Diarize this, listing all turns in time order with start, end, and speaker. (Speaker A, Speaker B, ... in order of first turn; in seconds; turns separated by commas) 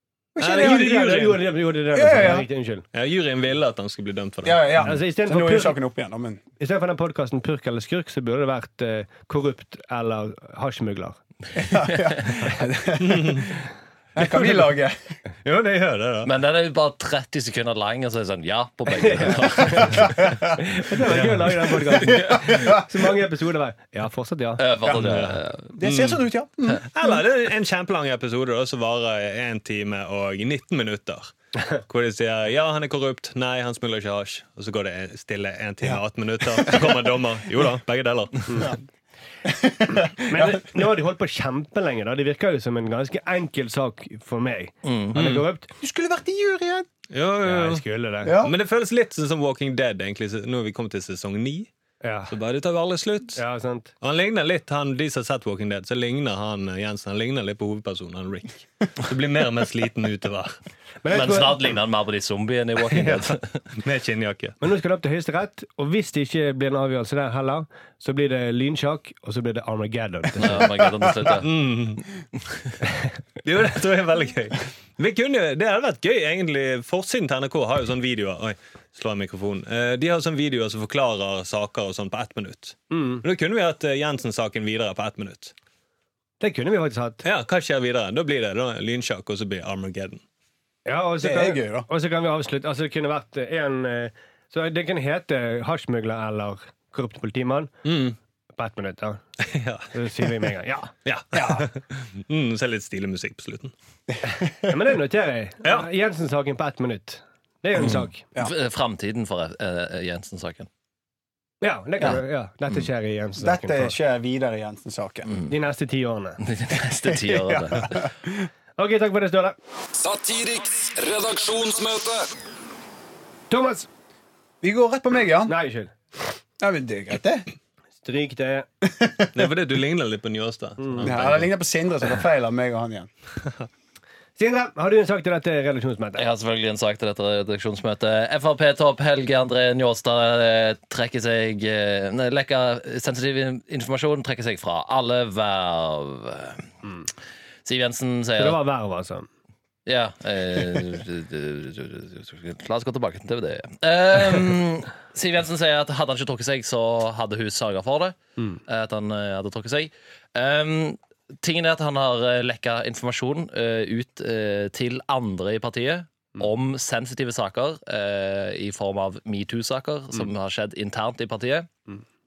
Speaker A: 0.3-0.9, Speaker B: 0.4-1.5, Speaker C: 0.4-2.9, Speaker A: 1.9-2.5, Speaker B: 2.9-4.9, Speaker A: 4.4-6.4, Speaker C: 4.8-5.8, Speaker C: 6.6-11.2, Speaker A: 11.6-13.5, Speaker B: 13.0-13.5, Speaker A: 14.2-14.9, Speaker B: 14.2-14.7, Speaker B: 15.4-16.3, Speaker D: 16.2-20.2, Speaker C: 18.9-20.0, Speaker A: 19.9-20.3, Speaker C: 20.6-24.6, Speaker B: 21.1-21.6, Speaker A: 22.1-22.7, Speaker D: 24.6-25.8, Speaker A: 24.8-25.2, Speaker B: 24.9-25.2, Speaker A: 25.7-27.2, Speaker B: 25.8-26.2, Speaker B: 26.9-38.7, Speaker A: 39.4-40.6, Speaker C: 40.1-45.7, Speaker D: 44.8-45.1, Speaker B: 45.1-45.4, Speaker A: 45.8-46.9, Speaker B: 47.1-47.8, Speaker C: 47.4-48.4, Speaker A: 48.2-48.5, Speaker B: 48.4-51.7, Speaker C: 52.0-52.3, Speaker B: 52.3-53.4, Speaker C: 53.4-53.9, Speaker B: 54.0-60.6, Speaker C: 61.0-61.7, Speaker D: 61.1-63.6, Speaker B: 63.8-64.5, Speaker C: 64.6-70.7, Speaker D: 70.4-71.5, Speaker B: 71.4-72.0, Speaker B: 73.4-85.5, Speaker C: 82.9-83.2, Speaker C: 86.4-87.2, Speaker B: 87.2-90.2, Speaker C: 90.8-97.7, Speaker A: 91.2-91.9, Speaker B: 97.8-98.2, Speaker C: 98.5-99.2, Speaker B: 99.5-99.9, Speaker C: 99.9-100.9, Speaker B: 101.0-103.7, Speaker A: 101.3-101.7, Speaker C: 104.7-108.2, Speaker D: 107.8-110.7, Speaker C: 111.6-113.9, Speaker A: 113.4-115.3, Speaker D: 115.2-115.5, Speaker C: 115.5-116.4, Speaker D: 116.4-118.1, Speaker A: 117.0-118.5, Speaker C: 118.8-119.5, Speaker E: 119.9-122.3, Speaker C: 123.5-123.9, Speaker A: 124.6-125.5, Speaker C: 125.5-125.9, Speaker A: 126.6-127.5, Speaker C: 128.0-128.7, Speaker A: 128.8-129.3, Speaker B: 129.3-131.4, Speaker C: 130.8-131.2, Speaker A: 131.0-133.1, Speaker C: 134.4-136.2, Speaker D: 136.1-146.7, Speaker D: 147.6-148.6, Speaker C: 148.4-149.3, Speaker D: 149.8-171.7